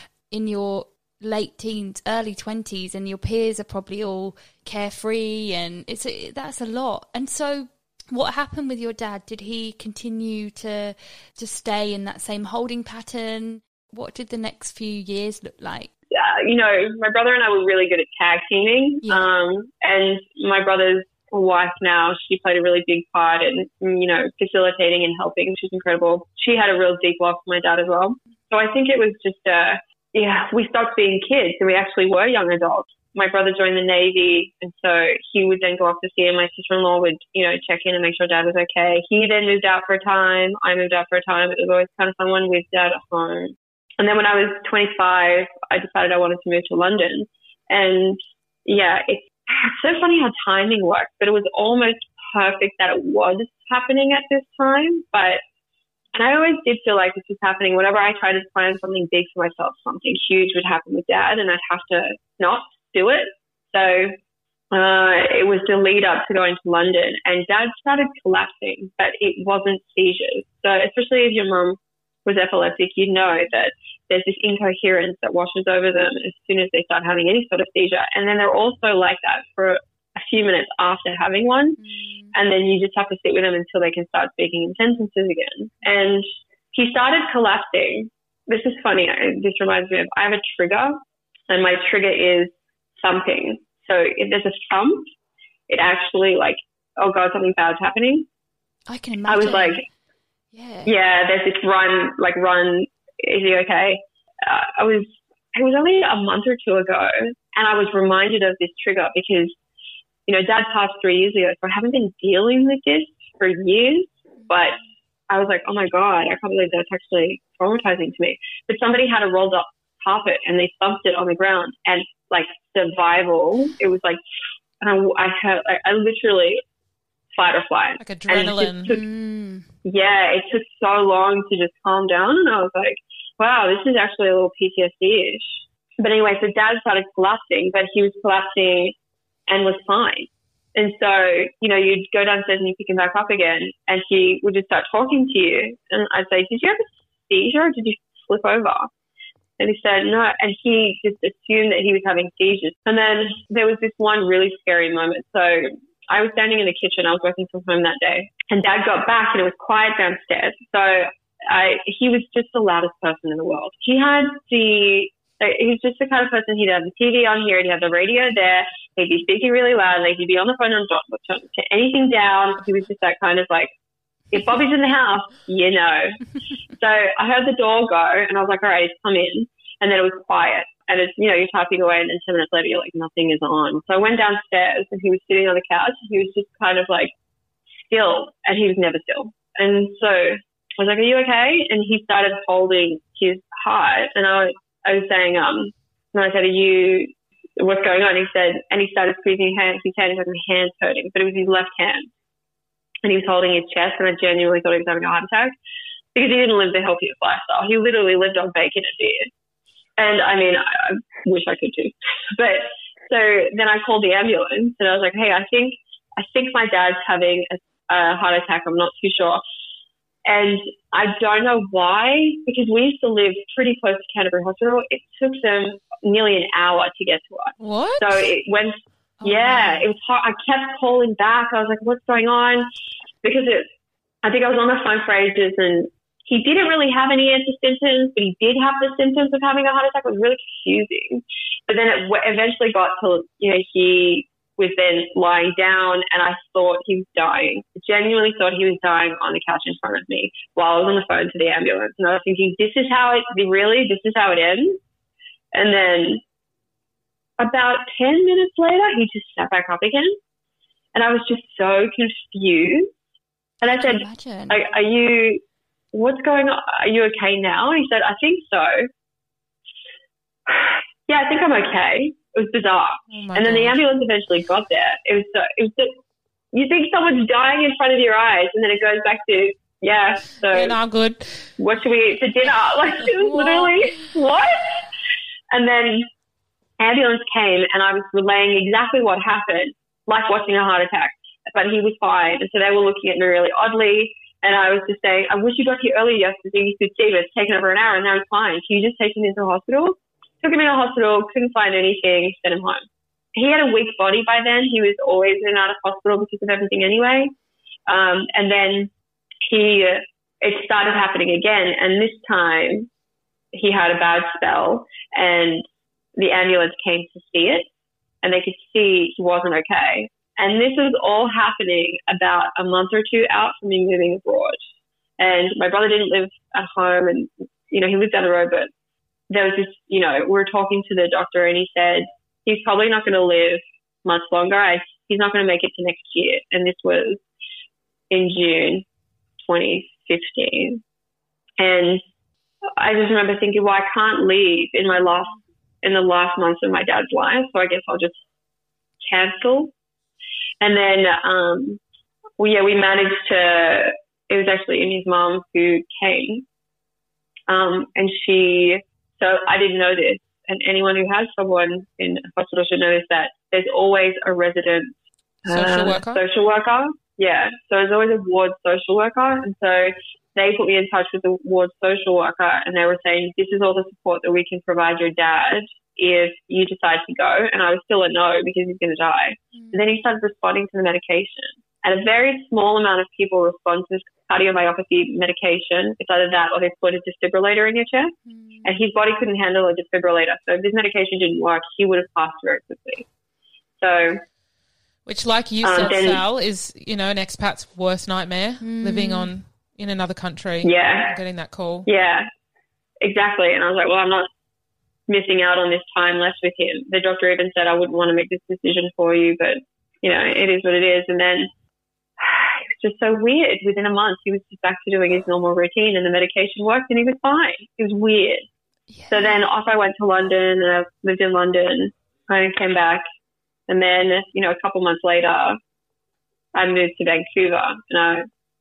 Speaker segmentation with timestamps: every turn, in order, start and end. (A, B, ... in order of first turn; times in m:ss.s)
0:00.3-0:15.9 A
0:16.1-0:55.4 B
0:19.0-0:19.3 A
0:56.1-1:04.2 B
1:04.7-1:21.8 B
1:21.8-1:22.3 A
1:22.3-1:31.0 B
1:31.5-1:35.0 B
1:35.7-1:38.3 B
1:38.9-1:39.8 A
1:39.3-1:39.8 B
1:40.5-1:40.9 A
1:40.8-1:49.5 B
1:50.3-1:54.8 B
1:55.3-2:04.2 B
2:04.8-2:06.6 B
2:07.3-2:09.0 B
2:08.0-2:08.9 C
2:08.9-2:09.7 A
2:09.8-2:18.9 B
2:19.5-2:28.9 B
2:29.6-2:53.7 B
2:54.3-3:07.1 B
3:07.8-3:22.1 B
3:23.0-3:25.5 B
3:26.1-3:29.3 B
3:30.0-3:39.4 B
3:40.2-3:52.7 B
3:47.6-3:48.3 C
3:49.2-3:49.8 A
3:53.2-3:53.7 B
3:54.2-4:14.8 B
4:15.5-4:16.2 B
4:17.4-4:20.2 B
4:20.9-4:22.9 B
4:23.6-4:25.4 B
4:23.8-4:24.6 A
4:25.9-4:28.9 B
4:30.5-4:35.9 B
4:33.1-4:33.8 C
4:36.5-4:40.8 B
4:40.5-4:41.5 C
4:41.6-4:44.8 B
4:45.5-4:46.1 B
4:46.8-5:07.3 B
5:07.9-5:08.9 B
5:09.5-5:12.9 B
5:13.5-5:15.6 B
5:16.2-5:17.7 B
5:18.2-5:24.6 B
5:25.2-5:28.7 B
5:29.3-5:37.2 B
5:38.1-5:38.8 B
5:39.4-5:40.8 B
5:41.6-5:42.0 B
5:42.7-5:48.2 B
5:49.1-5:49.7 B
5:50.6-5:51.8 B
5:52.4-5:56.4 B
5:57.5-6:04.9 B
6:05.4-6:06.2 C
6:05.4-6:33.0 B
6:19.5-6:19.8 A
6:28.2-6:28.7 A
6:33.8-6:34.2 B
6:35.0-6:41.9 C
6:35.6-6:36.2 B
6:38.6-6:39.3 A
6:40.6-6:41.1 B
6:41.8-6:42.3 B
6:43.0-6:44.3 B
6:45.1-6:51.5 B
6:52.2-6:58.5 B
6:58.9-6:59.4 A
6:59.1-7:03.0 B
7:03.7-7:05.6 B
7:06.5-7:08.2 B